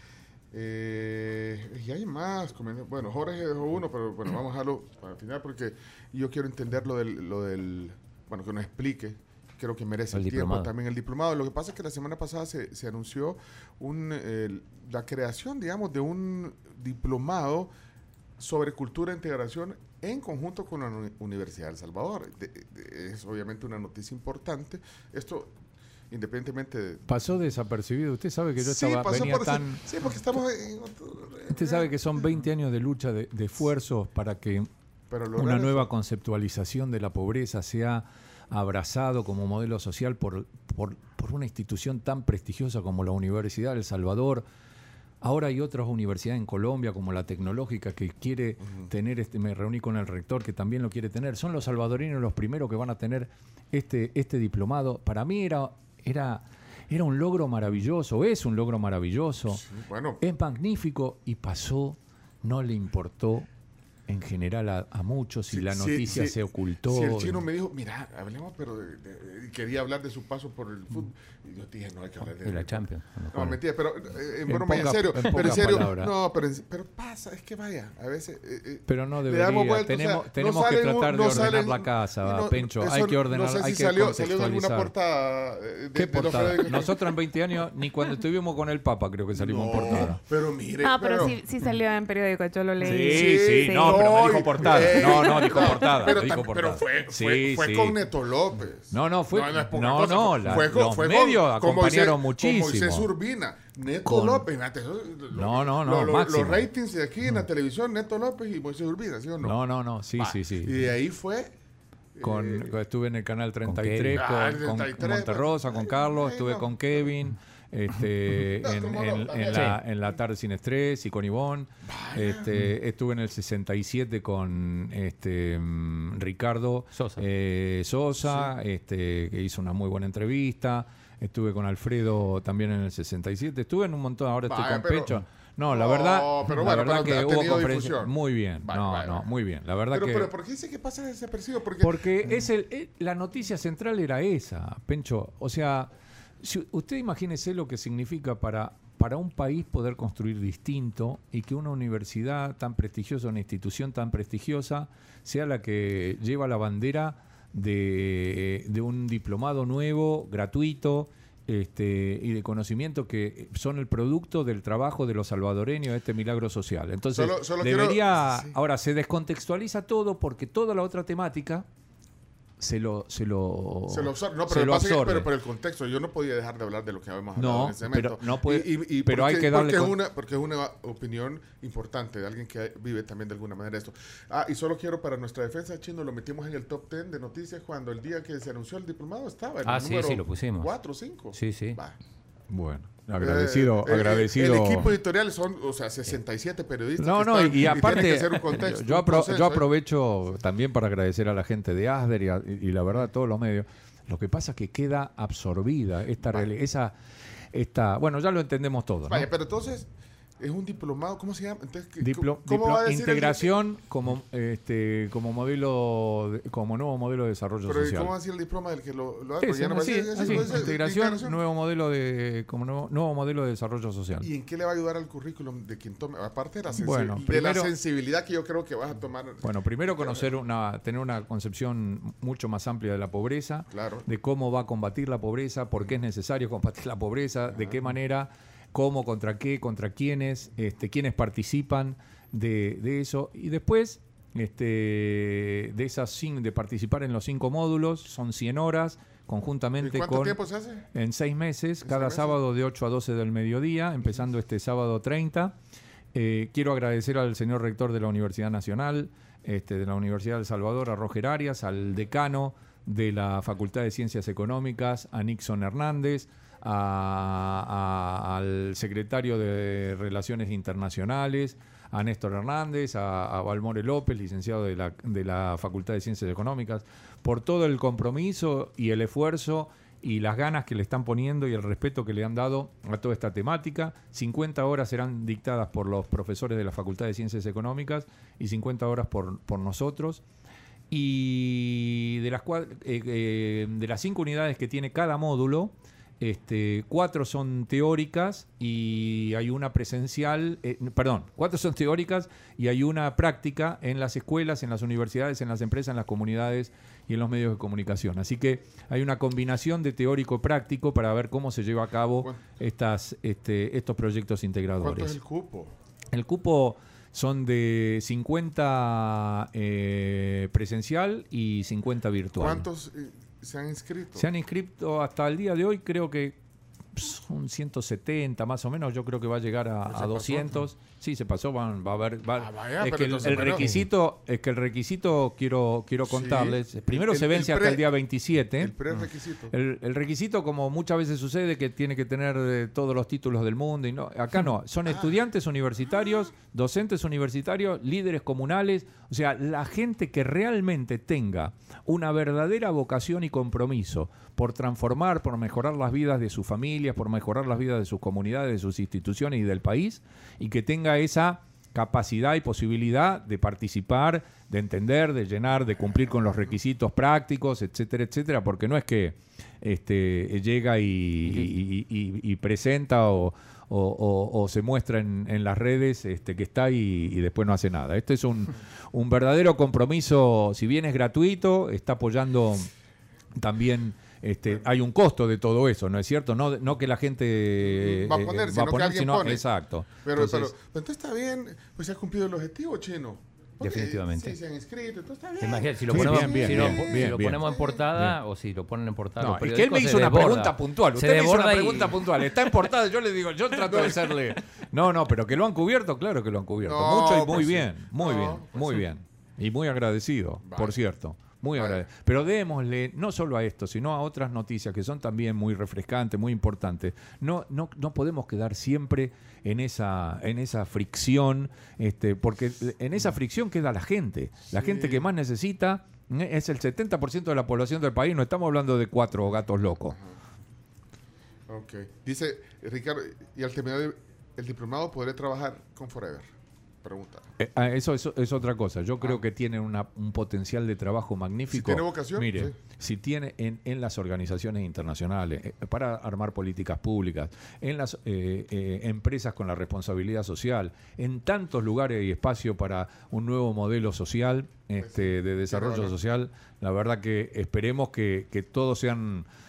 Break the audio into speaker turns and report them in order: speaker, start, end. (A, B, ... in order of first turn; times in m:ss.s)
0:00.5-0:17.7 A
0:10.1-0:10.7 B
0:18.4-0:25.6 A
0:26.1-0:27.3 A
0:27.1-0:29.8 C
0:28.6-0:31.9 A
0:31.5-0:34.7 C
0:35.1-0:35.9 A
0:35.4-0:44.5 C
0:45.2-0:59.6 C
0:48.6-0:48.9 A
0:59.5-1:00.2 A
1:00.2-1:03.5 C
1:04.1-1:07.4 C
1:05.5-1:27.2 A
1:12.3-1:13.6 B
1:14.5-1:16.1 C
1:18.9-1:24.9 C
1:26.0-1:30.2 C
1:29.4-1:31.4 A
1:30.8-1:35.9 D
1:32.8-1:38.0 C
1:32.8-1:49.6 A
1:38.9-1:43.1 C
1:44.0-1:44.5 C
1:45.3-1:46.7 C
1:49.4-1:50.9 C
1:50.2-1:51.5 A
1:52.2-1:52.7 A
1:52.2-2:20.3 C
1:53.6-1:54.2 B
1:54.1-1:57.0 A
1:58.6-2:00.2 A
2:01.8-2:02.5 A
2:06.9-2:07.2 B
2:08.2-2:08.5 A
2:14.4-2:19.3 A
2:19.9-2:22.4 A
2:21.8-2:25.9 C
2:26.4-2:51.7 C
2:47.1-2:48.6 A
2:52.6-2:55.3 C
2:53.9-3:12.0 A
2:57.4-3:00.0 C
3:09.6-3:10.7 B
3:11.3-3:11.8 B
3:12.5-3:14.9 C
3:13.2-3:19.7 A
3:17.0-3:26.9 C
3:27.5-3:29.3 C
3:29.1-3:33.5 A
3:32.0-3:38.1 C
3:37.6-3:41.4 A
3:39.4-3:44.3 C
3:44.2-3:50.3 A
3:46.7-3:47.7 C
3:49.4-4:10.4 C
3:53.7-3:54.1 A
3:57.5-3:57.8 A
4:09.8-4:10.9 A
4:10.9-4:15.6 C
4:11.8-4:12.4 A
4:16.1-4:50.2 C
4:50.9-5:15.2 C
5:14.8-5:15.7 A
5:16.1-5:22.7 C
5:22.4-5:24.3 A
5:24.2-5:26.4 C
5:27.0-5:38.8 C
5:29.9-5:30.6 A
5:32.4-5:33.8 A
5:36.0-5:37.9 A
5:38.6-5:39.5 A
5:39.5-6:22.7 C
6:23.4-6:30.6 C
6:27.6-6:29.4 A
6:30.0-6:37.8 A
6:33.6-6:34.4 B
6:35.4-6:42.2 B
6:35.9-6:37.4 C
6:39.2-7:10.0 C
6:43.6-6:44.2 A
6:46.6-6:48.9 A
6:50.4-6:50.8 A
6:51.5-6:51.9 A
7:04.5-7:05.1 A
7:09.3-7:10.2 A
7:11.5-7:16.3 A
7:16.8-7:17.2 A
7:17.4-7:39.3 C
7:21.5-7:22.6 A
7:34.8-7:36.0 A